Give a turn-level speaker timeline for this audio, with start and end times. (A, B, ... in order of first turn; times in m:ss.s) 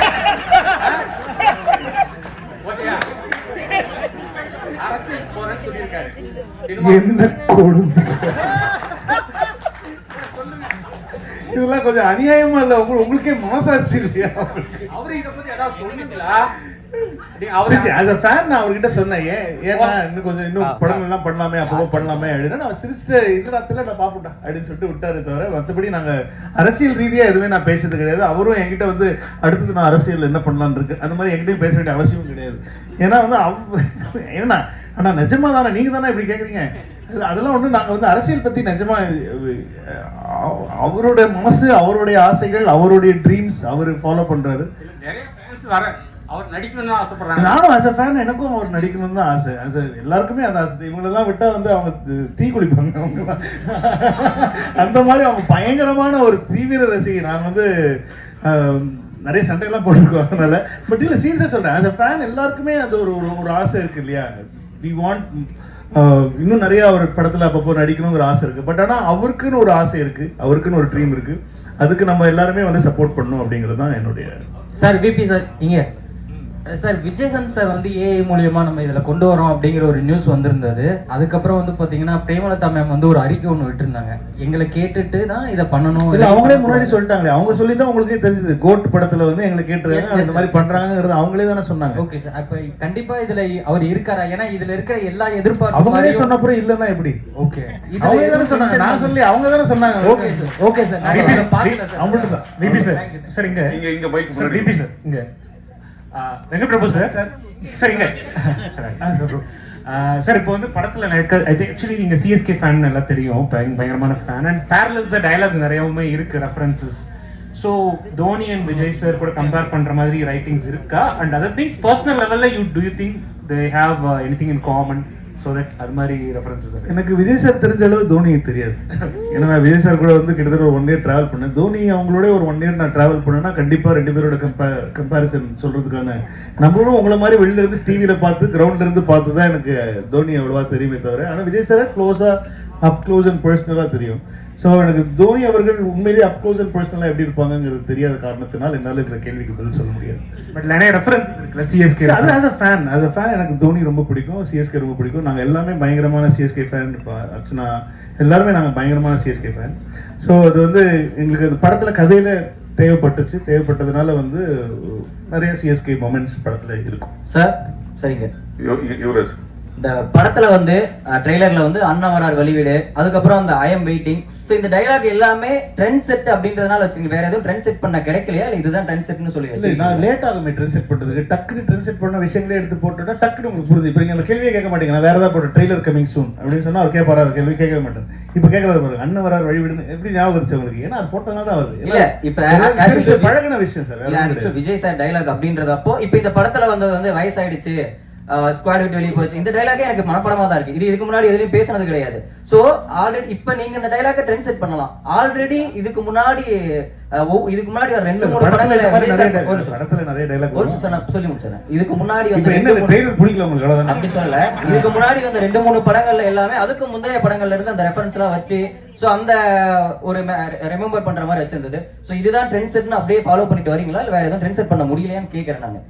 0:00.8-0:01.1 A
0:02.6-0:03.1 A
0:04.7-0:06.2 A
0:06.7-0:07.2 A
0:06.8-0:09.3 B
0:10.2-0:10.7 A
0:11.4-0:14.9 B
0:14.9-0:16.5 A
0:17.3-0:18.0 A
0:17.7-0:44.7 B
0:19.7-0:20.0 A
0:20.6-0:21.0 C
0:21.6-0:22.3 C
0:44.8-0:47.6 A
0:47.3-1:14.4 B
1:14.8-1:15.9 D
1:16.7-1:27.0 D
1:26.1-1:32.0 B
1:29.9-1:30.8 D
1:32.0-1:36.3 D
1:35.7-1:37.2 B
1:37.4-1:39.2 D
1:38.0-1:40.5 B
1:40.0-1:43.3 D
1:41.0-1:41.9 E
1:41.1-1:41.4 B
1:41.9-1:42.9 B
1:42.5-1:45.2 E
1:43.6-1:44.8 F
1:46.1-1:47.2 E
1:46.9-1:47.3 B
1:47.7-2:06.9 E
1:49.0-1:49.4 B
2:06.8-2:30.2 B
2:30.5-2:32.4 E
2:32.0-2:47.1 B
2:47.3-2:48.3 C
2:48.6-2:49.4 F
2:49.8-3:00.0 C
2:59.5-3:14.5 B
3:11.8-3:13.4 C
3:14.0-3:17.8 C
3:18.3-3:26.5 C
3:27.2-3:29.8 C
3:28.2-3:31.0 B
3:30.5-3:33.0 C
3:32.3-3:35.0 B
3:33.8-3:45.8 C